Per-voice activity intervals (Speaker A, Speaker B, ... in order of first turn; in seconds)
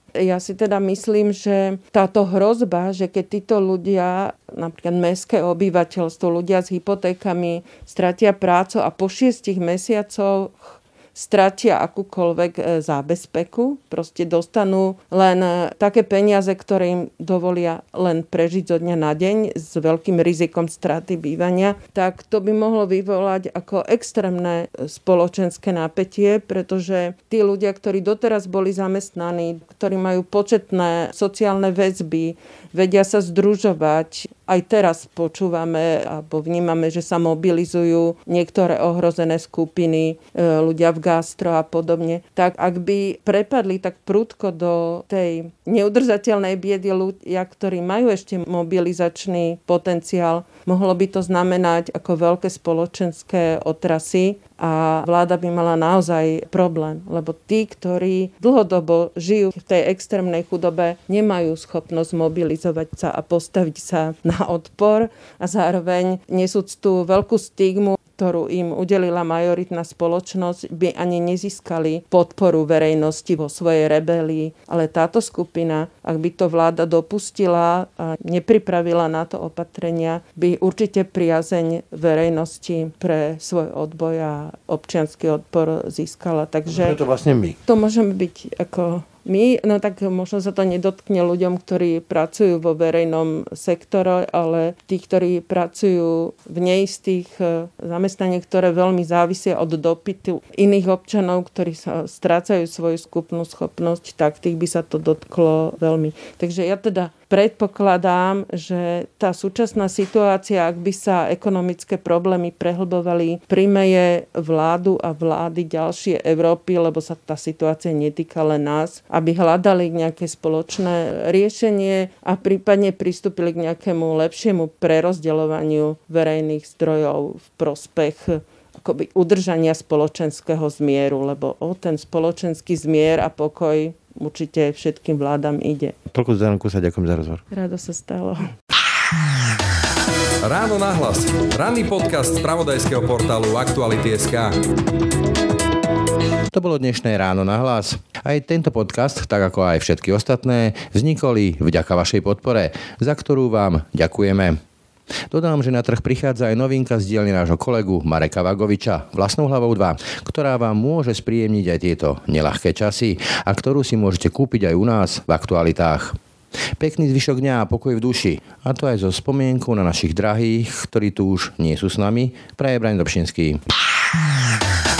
Speaker A: 0.2-87.0, 87.6-136.0, 137.5-138.5
Speaker B: 86.7-87.6, 136.1-137.4, 146.5-154.6, 155.3-166.2, 166.8-173.6
Speaker C: 140.4-144.5